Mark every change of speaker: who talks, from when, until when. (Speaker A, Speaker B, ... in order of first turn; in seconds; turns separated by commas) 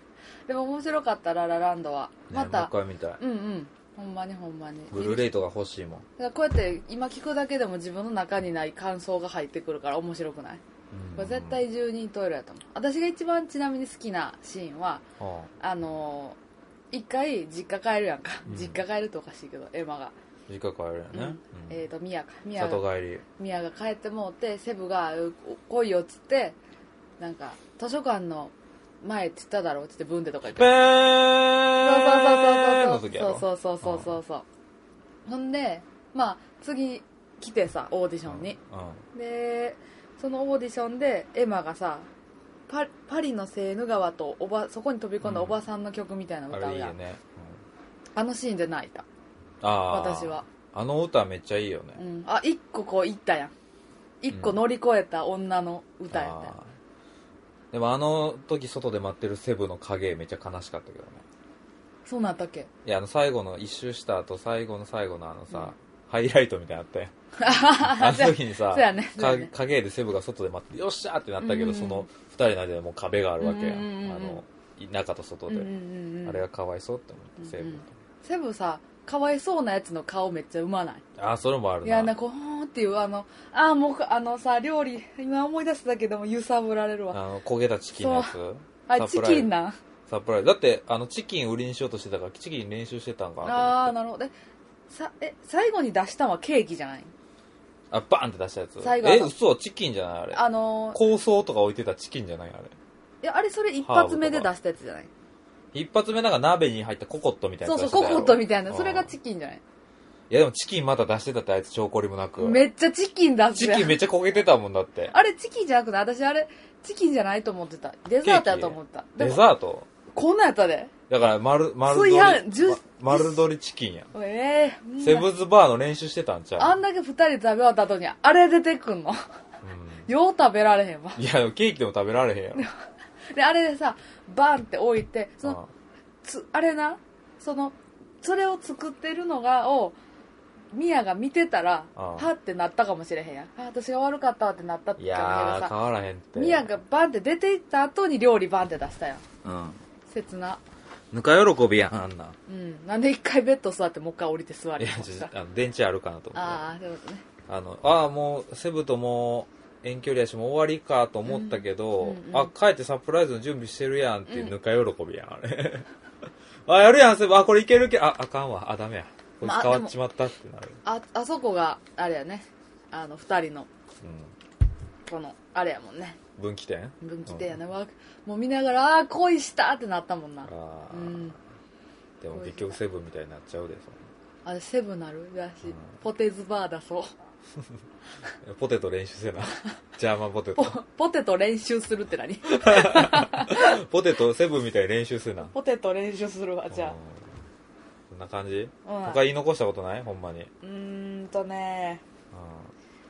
Speaker A: 0.5-5.3, Speaker B: 2.3-3.2, Speaker B: 4.9-6.0, Speaker A: 6.2-10.6, Speaker B: 10.9-11.6, Speaker A: 11.2-15.0, Speaker B: 15.2-15.5, Speaker A: 15.6-16.4, Speaker A: 16.9-20.1, Speaker B: 18.5-18.8, Speaker B: 20.5-21.8, Speaker A: 21.1-22.8, Speaker B: 22.6-23.2, Speaker A: 23.4-26.6, Speaker A: 27.2-30.7, Speaker B: 30.5-34.2, Speaker A: 31.8-34.5, Speaker A: 35.3-38.6, Speaker B: 38.3-39.0, Speaker A: 39.1-42.1, Speaker A: 42.7-46.9, Speaker B: 45.2-45.6, Speaker B: 46.5-47.6, Speaker A: 48.1-49.0, Speaker B: 49.6-52.0, Speaker A: 49.9-50.5, Speaker A: 52.0-53.5, Speaker A: 54.2-56.5, Speaker B: 54.3-54.6, Speaker B: 56.1-56.7, Speaker B: 57.7-61.2, Speaker A: 62.0-62.7, Speaker B: 62.9-67.1, Speaker A: 67.4-69.5, Speaker B: 67.7-75.7, Speaker A: 71.4-72.1, Speaker A: 73.4-74.4, Speaker A: 75.5-76.5, Speaker B: 76.2-77.9, Speaker A: 77.4-81.0, Speaker B: 81.2-82.1, Speaker A: 81.8-87.2, Speaker B: 87.1-89.5, Speaker A: 87.9-88.3, Speaker A: 88.9-89.8, Speaker B: 90.1-93.9, Speaker A: 93.4-94.3, Speaker A: 94.9-97.1, Speaker B: 97.9-102.8, Speaker A: 98.8-99.3, Speaker A: 100.3-101.0, Speaker A: 103.2-105.1, Speaker B: 103.8-104.5, Speaker B: 105.7-109.1, Speaker A: 107.7-109.6, Speaker B: 110.3-112.6, Speaker A: 112.4-114.0, Speaker B: 113.5-115.1, Speaker A: 115.1-119.5, Speaker B: 118.2-119.9, Speaker A: 120.1-120.9, Speaker B: 121.1-124.1, Speaker A: 121.9-123.5, Speaker A: 124.1-125.3, Speaker B: 125.0-126.8, Speaker A: 126.6-129.2, Speaker B: 129.6-130.1, Speaker A: 130.1-131.2, Speaker B: 131.2-132.7, Speaker A: 133.3-135.6, Speaker B: 135.4-135.7, Speaker A: 136.2-140.0, Speaker A: 140.7-145.7, Speaker B: 142.0-142.3, Speaker B: 145.0-146.7, Speaker A: 146.3-149.2, Speaker B: 149.4-149.8, Speaker A: 150.1-150.6, Speaker B: 151.1-152.4, Speaker A: 152.5-155.3, Speaker B: 154.8-156.7, Speaker A: 156.3-157.2, Speaker B: 157.5-165.9, Speaker A: 161.3-162.5, Speaker A: 164.3-164.5, Speaker B: 166.7-170.8, Speaker A: 169.4-169.9, Speaker A: 170.8-173.7, Speaker B: 174.0-174.3, Speaker A: 175.1-176.2, Speaker B: 176.4-177.5, Speaker A: 177.0-181.4, Speaker B: 180.4-181.4, Speaker B: 182.2-184.0, Speaker A: 182.3-182.8, Speaker A: 184.4-187.1, Speaker B: 185.7-186.0, Speaker B: 188.4-190.8, Speaker A: 190.6-193.8, Speaker B: 192.5-195.5, Speaker A: 195.5-197.0, Speaker B: 196.7-197.2, Speaker B: 198.1-200.5, Speaker A: 198.8-199.2, Speaker A: 200.6-202.0, Speaker B: 202.3-202.7